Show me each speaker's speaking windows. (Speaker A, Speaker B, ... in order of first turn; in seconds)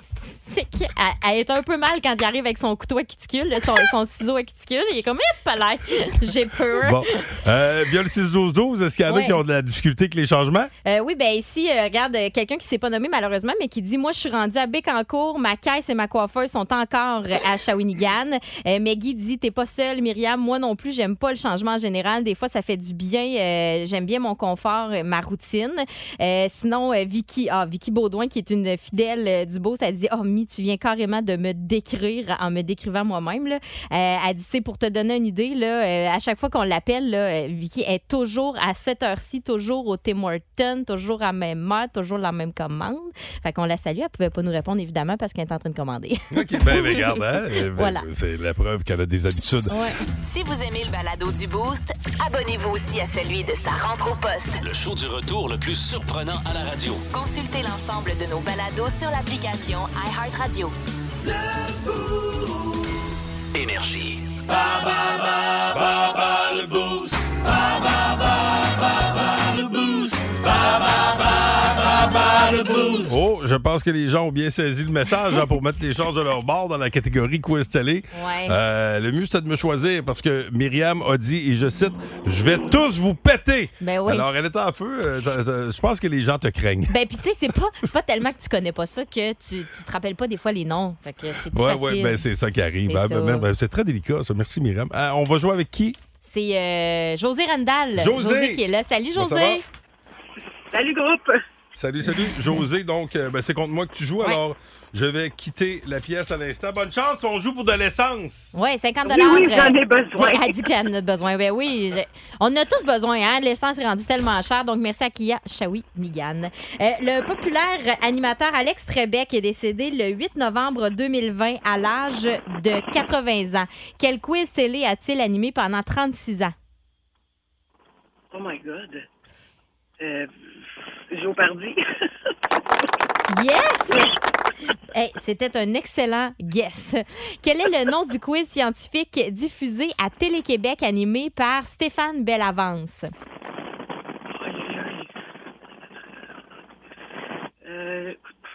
Speaker A: 0.2-7.4, 9.1-9.4, 10.8-48.1, 49.7-50.0, 78.1-78.6, 83.8-84.3, 86.9-92.2, 92.9-93.5, 96.2-99.6, 108.5-126.5, 133.3-134.1, 134.9-143.1
Speaker B: 6.7-10.7, 46.3-49.8, 73.0-86.9, 91.5-96.0, 98.0-98.6, 99.1-99.6, 101.7-108.5
Speaker C: 50.2-54.6, 57.1-60.7
Speaker D: 54.6-57.0, 63.5-64.2
Speaker E: 100.7-101.4, 109.0-110.6, 128.3-129.1, 130.0-130.3, 131.1-131.8, 144.3-145.1, 147.6-148.3